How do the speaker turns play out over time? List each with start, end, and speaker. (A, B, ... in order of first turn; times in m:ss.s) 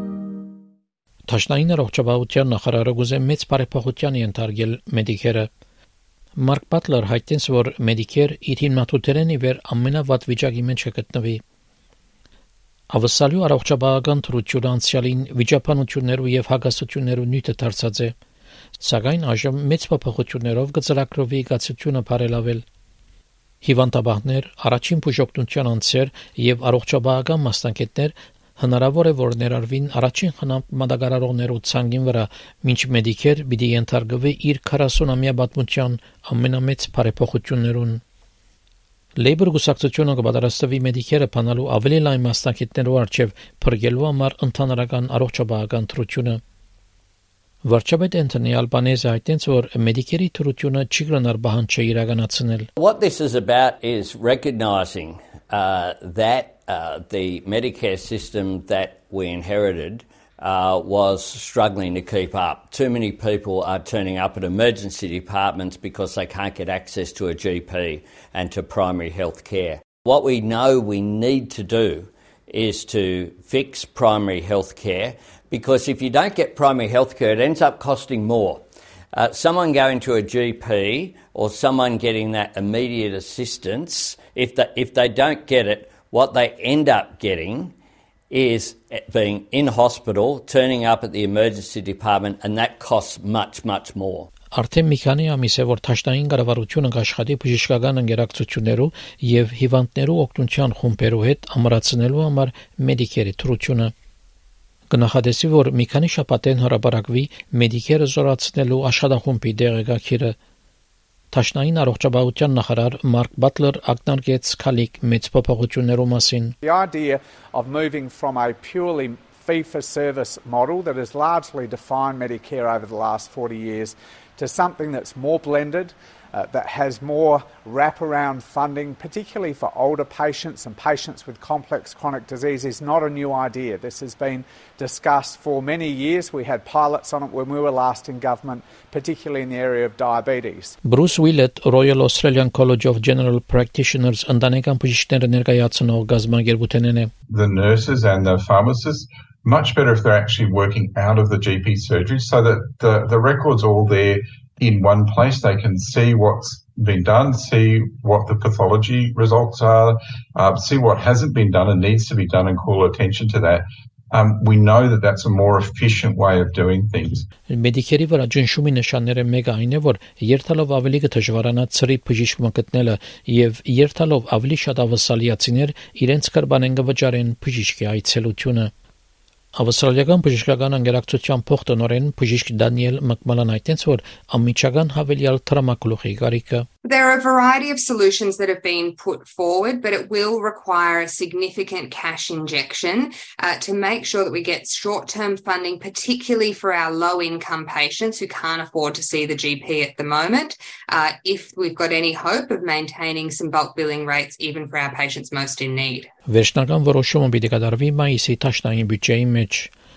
0:01.3-0:05.5 A
0:06.4-0:11.4 A
0:12.9-0:18.1 A
0:18.8-0:22.6 A
0:23.6-0:38.0 A
0:39.2-0:46.4 A
0:47.6-0:52.7 A
0:52.8-1:27.7 B
1:28.3-1:34.3 B
1:34.5-1:43.9 A
1:44.9-1:50.4 A
1:51.3-1:56.5 A
1:56.6-2:20.8 C
2:20.8-2:27.1 A
2:27.3-2:47.2 D
2:47.5-2:58.7 A
2:59.5-3:06.7 A
3:06.8-3:26.1 E
3:26.3-3:29.7 A